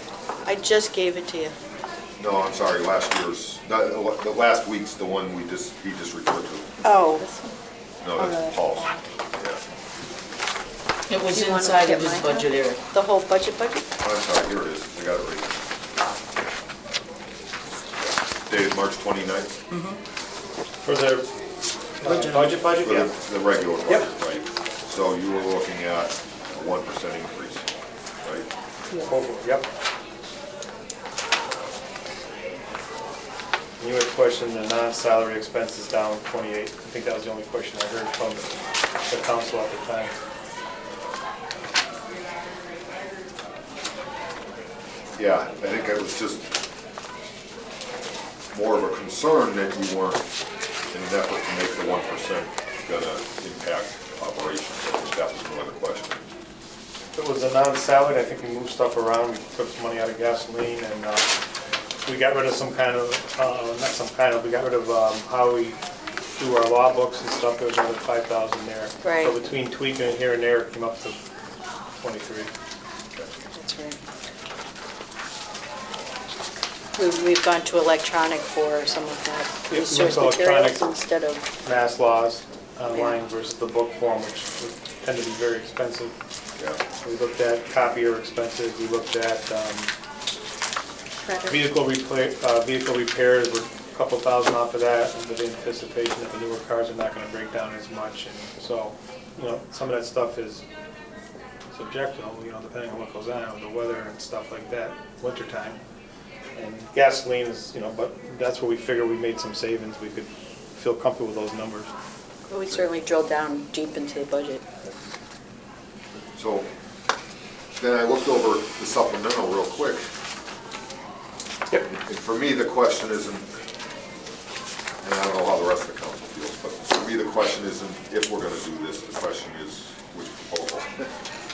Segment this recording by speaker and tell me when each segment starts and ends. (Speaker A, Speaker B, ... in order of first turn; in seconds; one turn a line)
Speaker A: 0.4-1.5
Speaker B: 2.2-6.7
Speaker A: 6.8-7.5
Speaker B: 8.0-9.6
Speaker C: 11.1-12.8
Speaker A: 11.3-13.9
Speaker B: 14.0-15.5
Speaker B: 18.5-19.5
Speaker C: 19.7-20.0
Speaker D: 20.8-21.3
Speaker D: 22.0-23.1
Speaker C: 22.0-22.6
Speaker B: 22.8-27.6
Speaker D: 29.0-29.7
Speaker D: 33.8-38.5
Speaker D: 39.1-40.1
Speaker B: 45.1-46.5
Speaker B: 48.5-50.2
Speaker B: 50.9-56.2
Speaker D: 57.1-61.3
Speaker D: 62.0-65.8
Speaker D: 66.4-71.2
Speaker A: 69.0-69.3
Speaker D: 72.0-72.5
Speaker A: 73.5-74.0
Speaker A: 77.0-81.5
Speaker D: 79.7-80.9
Speaker D: 81.6-86.1
Speaker D: 87.0-89.9
Speaker D: 91.5-100.6
Speaker D: 101.7-105.8
Speaker D: 106.5-111.9
Speaker A: 112.5-114.7
Speaker B: 116.3-116.7
Speaker B: 117.8-120.0
Speaker B: 121.8-123.5
Speaker B: 125.0-131.1